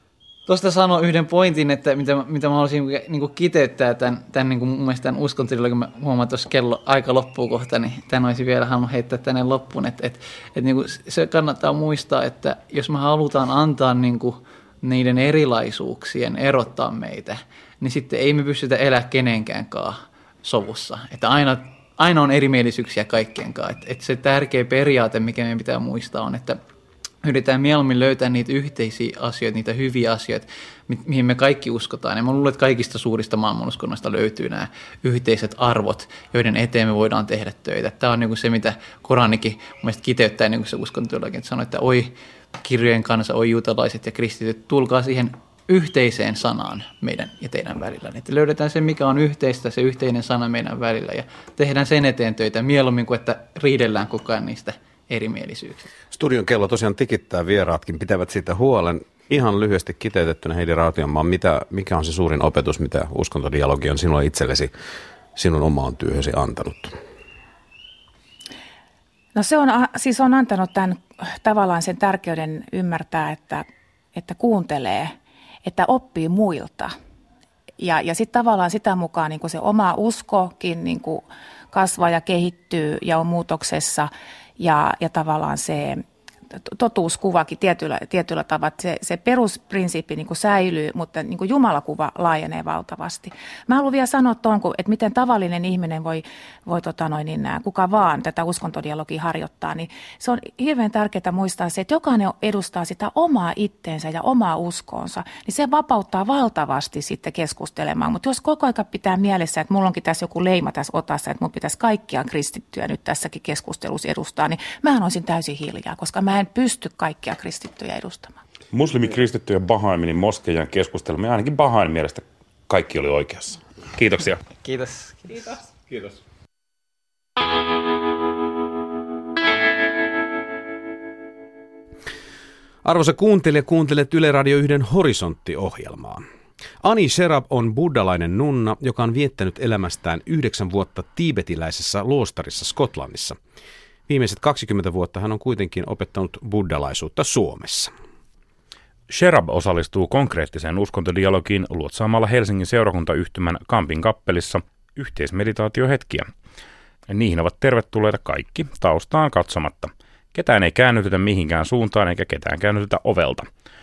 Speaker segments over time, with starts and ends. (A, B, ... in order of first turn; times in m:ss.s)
0:00.4-0:26.6 A
0:27.2-0:55.9 A
0:56.1-1:04.7 B
1:05.3-1:07.0 B
1:09.3-1:15.1 C
1:15.6-1:16.9 C
1:17.8-1:26.0 C
1:26.6-1:58.4 C
1:58.7-2:04.4 D
2:04.6-2:05.6 A
2:12.8-2:16.2 B
2:16.8-2:23.4 B
2:24.1-2:27.9 B
2:29.1-2:36.3 D
2:37.1-2:43.5 D